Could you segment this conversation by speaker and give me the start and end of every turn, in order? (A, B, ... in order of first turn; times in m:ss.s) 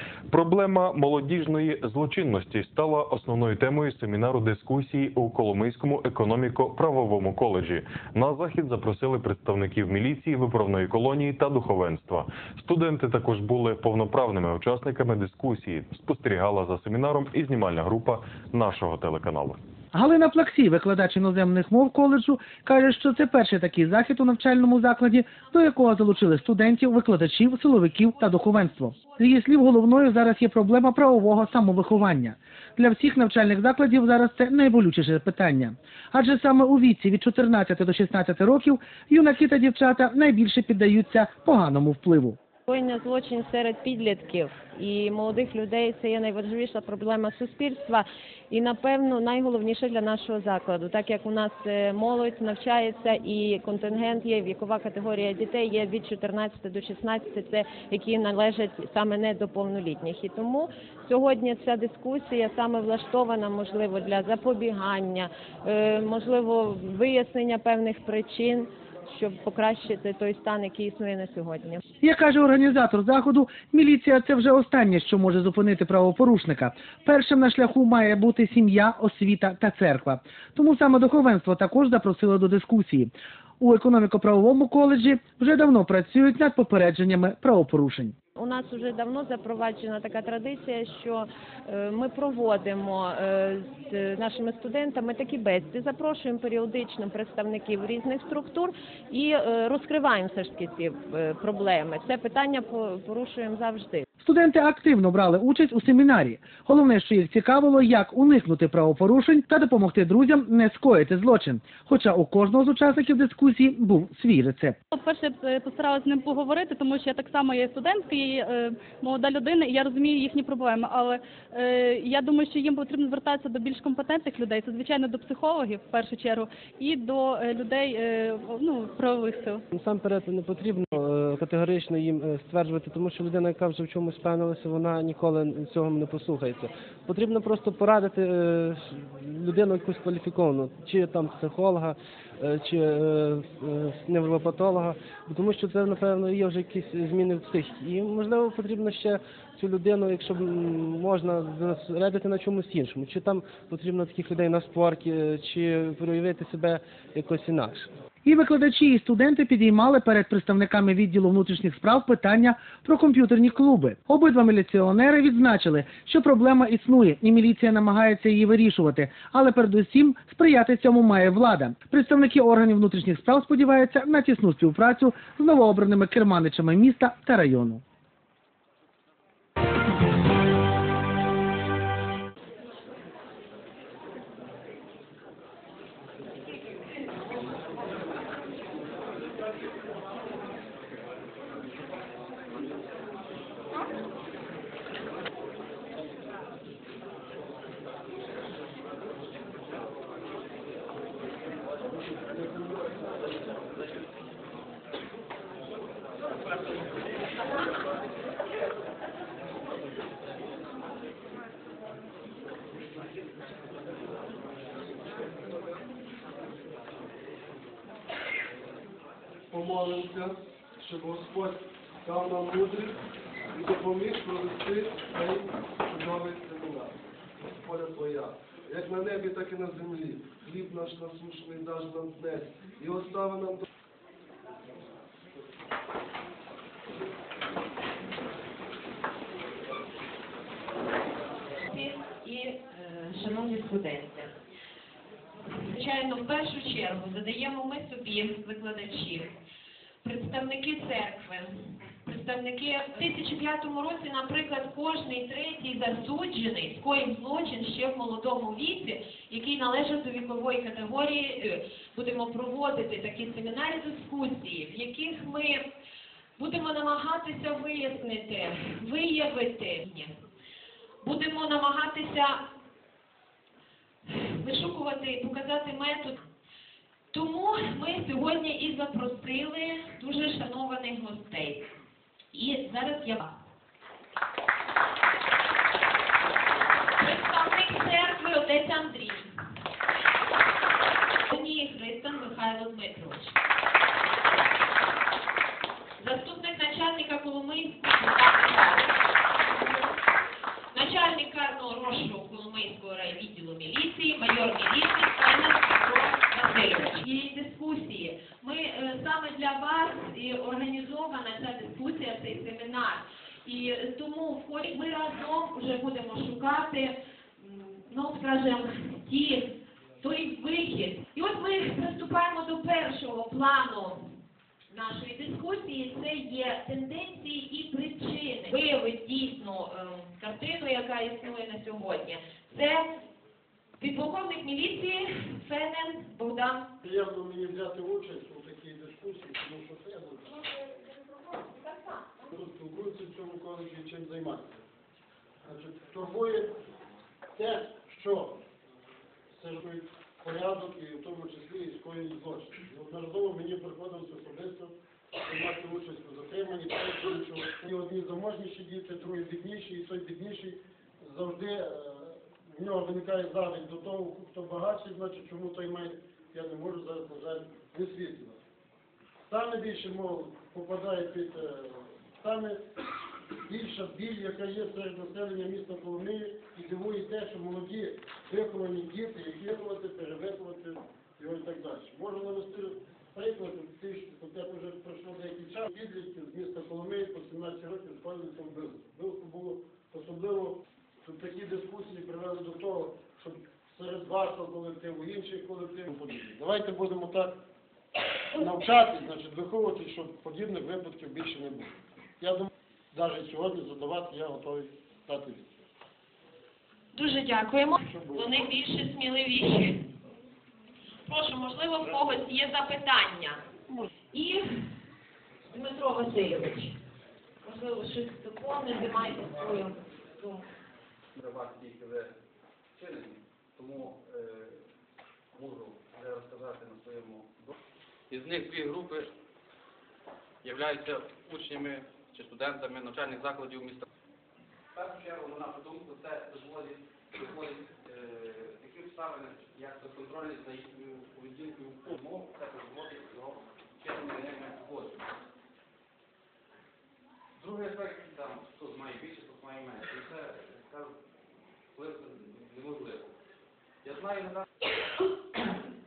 0:00.3-0:19.6 A
0:19.9-0:42.4 B
0:42.7-1:11.8 C
1:12.0-1:28.2 B
1:28.4-1:44.0 C
1:44.2-1:54.8 B
1:54.9-2:09.6 D
2:09.7-2:37.9 E
2:38.2-2:57.8 B
3:22.2-3:23.0 F
3:35.3-3:35.6 F
3:39.5-3:43.0 F
3:43.5-3:53.6 F
4:01.7-4:04.3 G
4:05.6-4:09.3 G
4:10.0-4:11.5 G
4:12.1-4:25.6 G
4:26.4-4:30.1 G
4:31.0-4:32.4 G
4:34.1-4:36.1 G
4:37.1-4:41.6 G
4:42.4-4:43.2 G
4:47.0-4:49.2 G
4:51.4-4:53.2 G
4:56.0-4:58.8 G
5:00.7-5:16.9 G
5:17.4-5:19.4 G
5:20.0-5:24.0 G
5:24.7-5:32.8 G
5:33.8-5:36.6 G
5:36.8-5:40.3 H
5:42.3-5:44.6 H
5:45.4-5:46.6 H
5:47.4-5:48.4 H
5:49.3-6:08.4 H
6:09.3-6:12.6 H
6:13.4-6:37.4 H
6:38.4-6:45.7 H
6:46.9-6:49.7 G
6:47.8-6:48.4 H
6:51.1-6:53.4 G
6:51.8-6:52.1 H
6:55.5-6:56.7 G
6:57.4-6:59.7 G
7:01.2-7:02.1 I
7:02.8-7:04.6 I
7:05.3-7:07.5 I
7:08.1-7:09.1 I
7:10.4-7:13.8 I
7:14.8-7:25.1 I
7:27.4-7:30.9 I
7:31.8-7:33.2 I
7:33.8-7:34.4 I